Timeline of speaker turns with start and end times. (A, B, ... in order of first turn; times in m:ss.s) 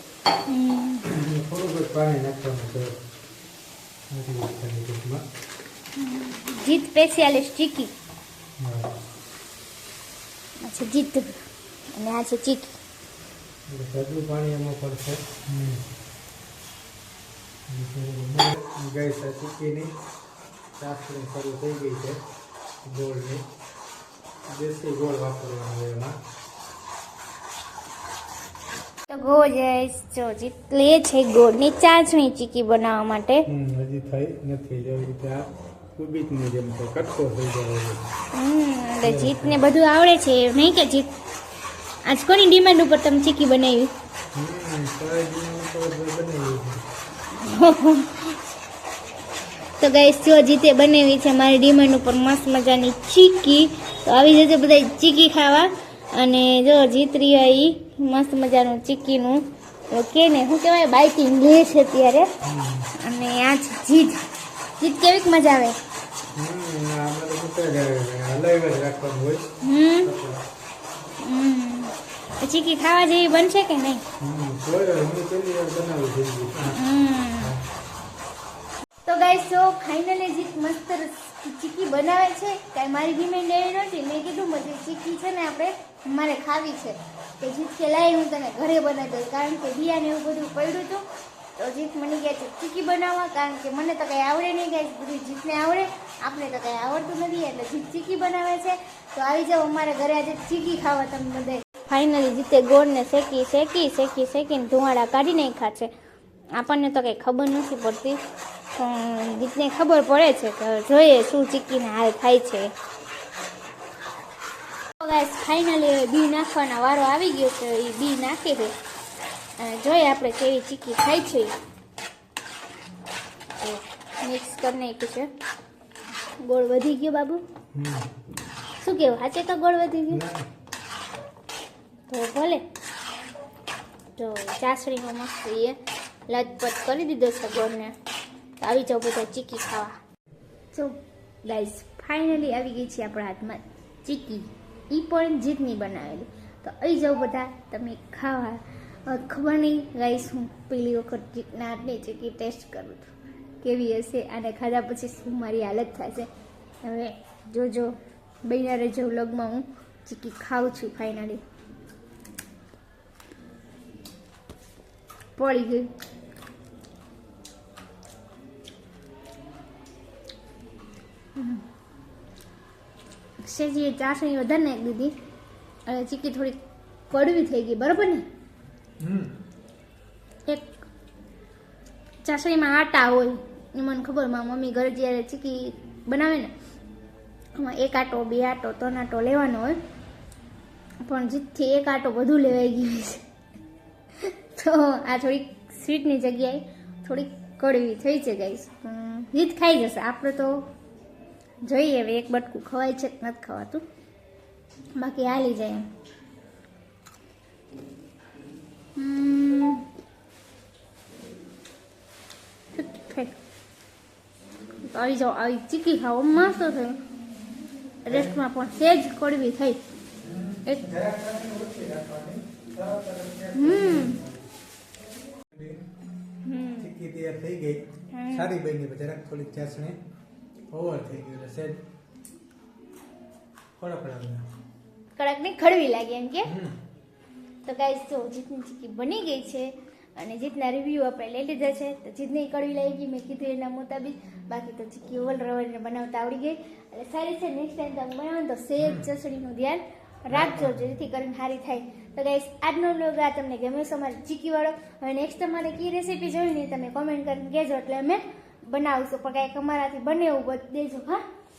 0:00.5-0:01.0 A
0:01.1-0:03.0 B
0:04.1-0:05.2 B
0:06.0-0:07.9 A
0:08.6-0:08.9 B
0:10.6-0:12.8 A
0:13.7-0:15.8 B
0:17.7-0:19.9 B
0:20.8-0:22.2 B
0:22.8-0:23.4 B
0:24.5-0:26.1 B
0:29.1-0:33.4 A
0:33.5-0:38.0 B
0:38.3-0:41.1 A
0:39.0-0:39.6 B
0:42.0-0:43.9 A
0:44.3-0:46.8 B
0:47.4-0:48.4 A
0:49.8-1:02.3 A
1:02.4-1:02.9 B
1:02.9-1:04.2 A
1:04.8-1:05.7 A
1:06.3-1:09.5 B
1:09.6-1:10.1 A
1:10.0-1:10.4 B
1:11.2-1:14.0 A
1:14.2-1:16.8 B
1:16.7-1:17.5 A
1:17.4-1:17.6 B
1:19.0-1:31.0 A
1:31.6-1:45.9 A
1:46.5-1:48.2 A
1:48.8-1:52.7 A
1:55.0-1:58.8 A
1:59.6-2:01.6 A
2:03.6-2:05.3 A
2:06.4-2:07.4 A
2:07.7-2:08.1 B
2:08.8-2:10.2 A
2:10.1-2:10.5 B
2:12.1-2:12.6 A
2:14.2-2:17.9 A
2:18.6-2:20.0 A
2:21.4-2:36.3 A
2:36.8-2:41.4 A
2:45.4-2:45.9 A
2:51.4-2:51.6 A
2:53.4-2:55.2 A
2:55.9-2:56.6 A
2:57.1-2:58.2 A
2:59.0-2:59.3 B
3:00.5-3:00.8 A
3:02.2-3:06.5 A
3:07.5-3:09.8 A
3:11.0-3:13.2 A
3:14.2-3:20.6 A
3:21.6-3:23.8 A
3:25.0-3:25.9 A
3:29.0-3:29.8 A
3:32.7-3:33.3 A
3:34.8-3:37.0 A
3:38.0-3:39.8 A
3:38.1-3:38.4 B
3:40.2-3:44.4 B
3:43.5-3:44.2 A
3:45.5-3:45.8 B
3:46.4-3:46.9 A
3:46.8-3:50.0 B
3:48.1-3:48.5 A
3:50.7-3:51.8 B
3:53.8-3:54.5 B
3:55.2-3:56.5 A
3:56.4-3:56.8 B
3:57.6-4:21.2 A
4:08.8-4:09.1 B
4:10.3-4:10.8 B